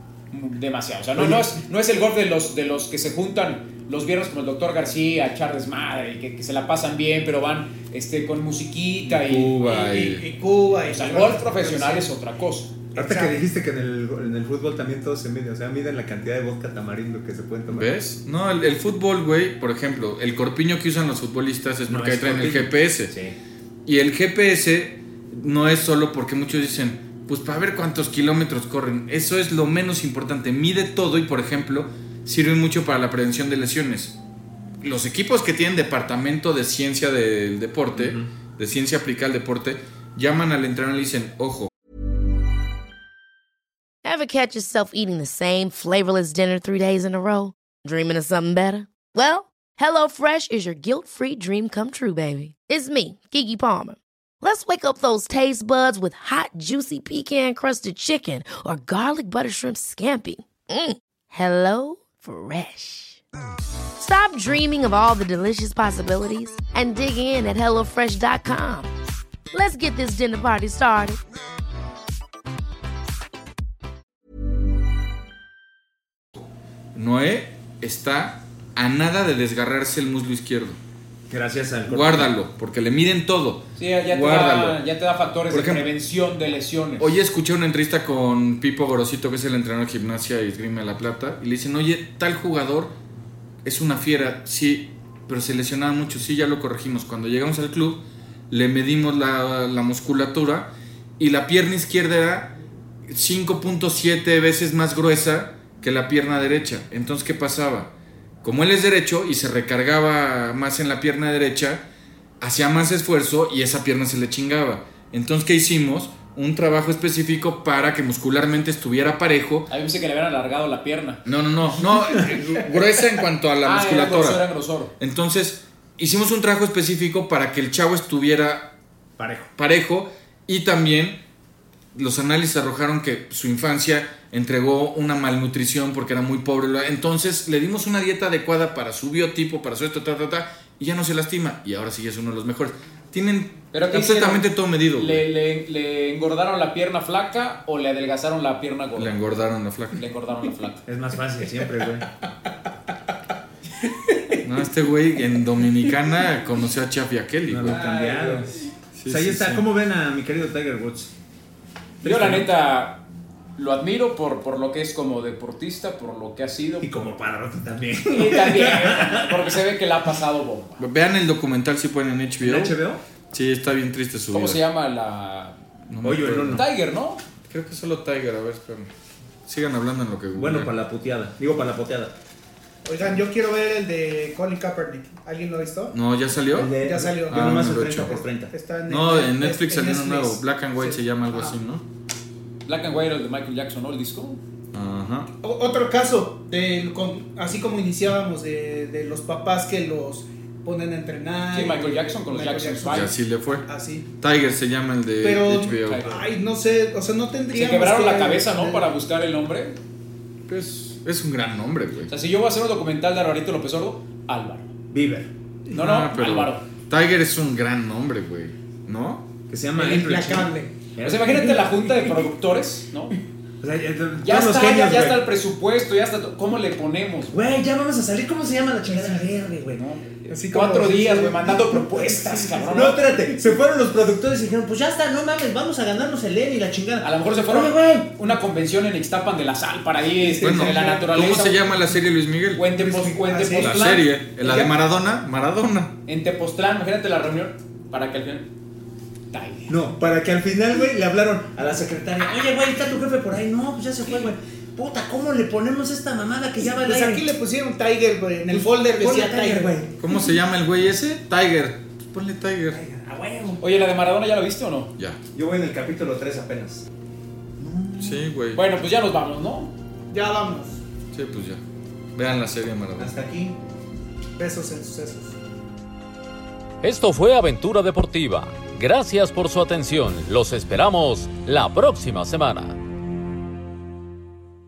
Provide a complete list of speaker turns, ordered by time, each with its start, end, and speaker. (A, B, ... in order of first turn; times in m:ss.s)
0:00.3-0:09.6 A
0:09.0-0:10.2 B
0:09.6-0:12.1 C
0:10.8-0:12.7 A
0:12.9-0:13.4 C
0:13.0-0:18.0 D
0:17.7-0:23.1 B
0:21.9-0:23.4 D
0:23.8-0:34.1 B
0:34.8-0:41.7 B
0:37.9-0:38.3 D
0:44.0-1:03.2 E
1:04.0-1:08.9 E
1:09.5-1:11.2 E
1:16.9-1:20.8 B
1:21.3-1:22.3 D
1:21.9-1:24.8 B
1:23.8-1:27.1 A
1:25.5-1:25.9 B
1:27.0-1:32.9 B
1:33.6-1:42.5 B
1:43.1-1:47.9 B
1:48.4-1:51.8 B
1:52.4-1:59.7 B
1:59.7-2:01.2 A
2:01.2-2:04.4 B
2:03.6-2:04.9 A
2:05.0-2:08.7 B
2:09.2-2:09.5 D
2:09.6-2:11.2 B
2:11.9-2:25.2 B
2:23.7-2:29.2 A
2:29.0-2:30.0 B
2:29.9-2:30.8 A
2:30.8-2:32.1 D
2:34.4-2:37.8 B
2:37.5-2:38.5 D
2:37.7-2:38.4 A
2:38.9-2:39.7 B
2:39.0-2:41.1 D
2:42.0-2:42.5 D
2:42.0-2:43.0 A
2:43.6-2:46.9 A
2:46.8-2:49.5 D
2:48.1-2:50.8 A
2:50.8-2:52.8 B
2:52.4-2:53.0 D
2:53.3-2:54.6 B
2:54.3-2:55.6 A
2:55.9-2:56.6 B
2:56.0-2:56.6 D
2:56.5-2:57.2 A
2:57.5-2:58.9 B
2:59.5-3:00.7 B
3:00.4-3:02.1 D
3:02.8-3:05.9 C
3:05.9-3:06.7 B
3:06.5-3:08.5 D
3:06.8-3:11.5 C
3:07.3-3:08.2 B
3:08.9-3:11.8 B
3:12.6-3:14.4 A
3:14.7-3:15.3 B
3:15.4-3:24.1 C
3:21.5-3:23.1 A
3:22.9-3:23.6 B
3:24.2-3:26.1 B
3:25.2-3:28.9 C
3:25.9-3:26.2 A
3:27.5-3:29.8 A
3:30.5-3:32.1 B
3:32.1-3:34.7 A
3:34.9-3:35.3 D
3:35.7-3:36.6 A
3:35.7-3:39.2 B
3:39.5-3:41.5 D
3:39.8-3:40.7 C
3:41.0-3:43.2 A
3:41.4-3:42.2 C
3:43.6-3:45.2 D
3:44.2-3:47.3 A
3:47.3-3:49.8 D
3:49.7-3:53.0 A
3:50.3-3:52.9 C
3:52.7-3:58.1 D
3:57.0-4:01.7 A
4:00.2-4:01.1 C
4:00.4-4:02.6 B
4:02.5-4:04.7 A
4:02.7-4:03.9 C
4:03.6-4:05.9 B
4:06.0-4:08.5 A
4:09.3-4:09.8 A
4:09.7-4:17.2 D
4:16.6-4:19.8 C
4:18.5-4:19.9 D
4:20.0-4:22.8 B
4:22.7-4:23.6 D
4:23.6-4:24.9 A
4:25.3-4:26.9 D
4:27.6-4:28.3 D
4:28.0-4:28.6 B
4:28.5-4:29.7 A
4:30.1-4:30.8 C
4:31.1-4:31.6 B
4:32.1-4:33.1 B
4:33.0-4:33.6 D
4:34.4-4:35.4 C
4:36.8-4:42.8 F